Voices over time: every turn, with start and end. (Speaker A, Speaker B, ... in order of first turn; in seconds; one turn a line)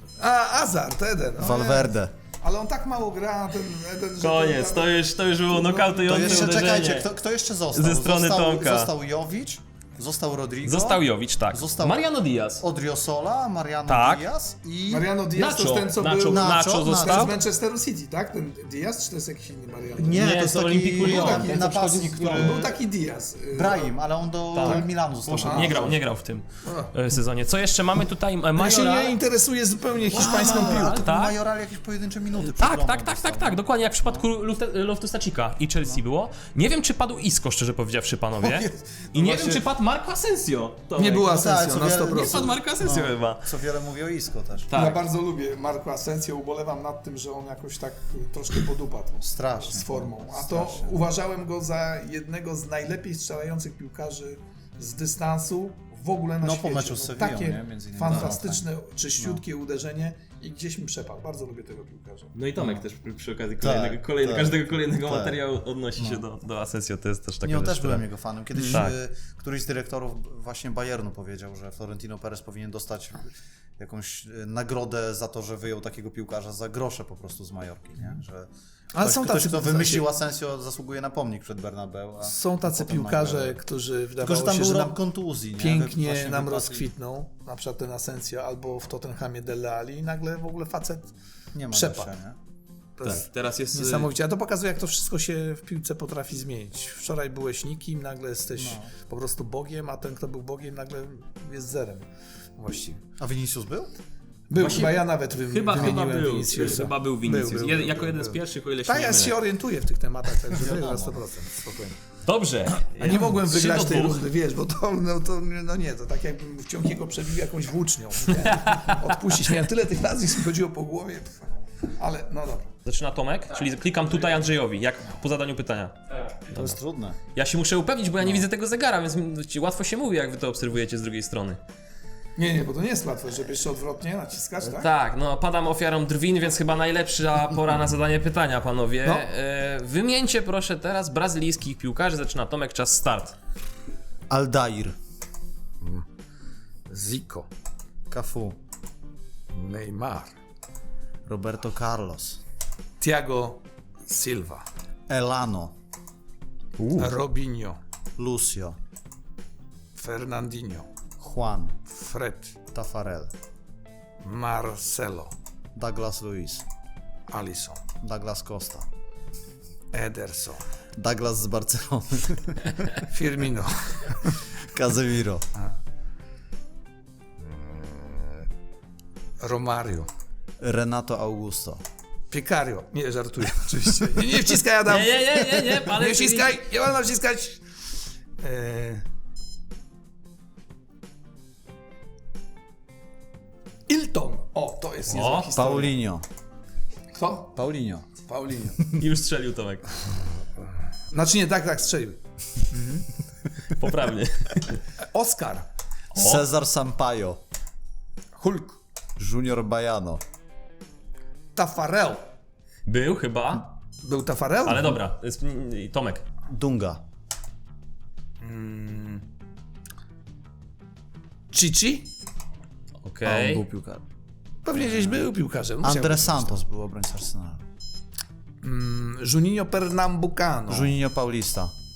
Speaker A: 0.2-6.6
Speaker B: 1.4-2.1
Speaker C: 4.2-7.1
Speaker B: 6.0-12.1
Speaker C: 7.7-8.9
Speaker C: 10.6-12.6
Speaker B: 12.6-15.1
Speaker C: 13.9-14.2
Speaker A: 14.9-20.2
Speaker C: 15.3-17.4
Speaker B: 16.3-17.4
Speaker B: 20.0-22.8
Speaker C: 20.1-22.3
Speaker A: 20.9-23.9
Speaker B: 23.5-26.0
Speaker C: 24.5-28.9
Speaker A: 25.4-26.0
Speaker A: 26.6-26.9
Speaker A: 28.6-31.0
Speaker B: 28.6-29.2
Speaker C: 30.1-31.3
Speaker B: 30.1-34.3
Speaker C: 32.4-41.4
Speaker B: 38.4-39.6
Speaker A: 41.0-42.6
Speaker B: 41.3-44.8
Speaker C: 42.0-43.5
Speaker C: 44.7-45.0
Speaker A: 44.7-62.3
Speaker B: 49.2-51.0
Speaker B: 56.4-58.6
Speaker B: 59.2-59.4
Speaker C: 62.3-68.0
Speaker B: 62.6-62.9
Speaker B: 63.6-65.4
Speaker B: 66.0-66.2
Speaker B: 67.4-83.6
Speaker A: 68.5-68.8
Speaker C: 68.7-68.9
Speaker A: 78.9-80.1
Speaker A: 82.2-85.0
Speaker B: 84.2-86.9
Speaker A: 85.6-91.1
Speaker B: 91.5-92.4
Speaker A: 91.7-92.1
Speaker A: 93.0-102.1
Speaker C: 93.0-94.1
Speaker B: 98.6-98.9
Speaker A: 102.6-103.0
Speaker B: 103.2-103.9
Speaker A: 104.5-111.9
Speaker C: 104.5-109.4
Speaker B: 110.5-111.2
Speaker C: 112.2-114.2
Speaker A: 112.9-122.7
Speaker C: 118.6-119.0
Speaker C: 122.8-126.8
Speaker B: 126.5-127.2
Speaker C: 127.3-131.6
Speaker A: 132.3-134.9
Speaker C: 134.7-143.3
Speaker B: 144.3-144.9
Speaker A: 146.9-147.5
Speaker B: 148.1-148.6
Speaker A: 149.5-150.3
Speaker B: 151.2-152.4
Speaker A: 153.0-154.6
Speaker B: 155.1-155.7
Speaker C: 156.8-157.1
Speaker A: 157.0-157.8
Speaker B: 158.2-158.8
Speaker A: 159.9-160.9
Speaker B: 161.2-161.8
Speaker A: 161.9-162.6
Speaker B: 162.7-163.3
Speaker A: 164.2-165.3
Speaker B: 165.8-166.6
Speaker A: 167.3-167.8
Speaker B: 168.0-168.9
Speaker A: 169.9-170.6
Speaker B: 170.9-172.8
Speaker A: 173.1-174.4
Speaker B: 174.6-175.4
Speaker A: 177.4-178.4
Speaker A: 179.4-180.1
Speaker B: 180.6-181.8
Speaker A: 182.3-187.6
Speaker C: 184.8-186.6
Speaker A: 188.4-189.0
Speaker A: 193.9-196.0
Speaker C: 195.1-195.5
Speaker B: 195.5-196.2
Speaker A: 197.1-197.5
Speaker B: 197.5-198.1
Speaker A: 198.2-198.8
Speaker C: 198.9-200.0
Speaker A: 201.1-202.2
Speaker A: 202.7-203.0
Speaker C: 203.6-204.8
Speaker A: 205.1-205.7
Speaker C: 206.1-206.5
Speaker B: 206.1-207.4
Speaker A: 208.3-208.8
Speaker B: 209.2-210.2
Speaker A: 211.6-212.2
Speaker C: 212.8-213.7
Speaker A: 214.0-215.0
Speaker C: 214.6-216.2
Speaker B: 216.5-217.0
Speaker A: 218.4-219.2
Speaker A: 221.5-222.1
Speaker C: 223.0-223.6
Speaker B: 223.2-224.0
Speaker A: 224.6-226.6
Speaker B: 224.7-225.3
Speaker B: 225.8-227.6
Speaker A: 228.6-230.9
Speaker B: 230.7-231.7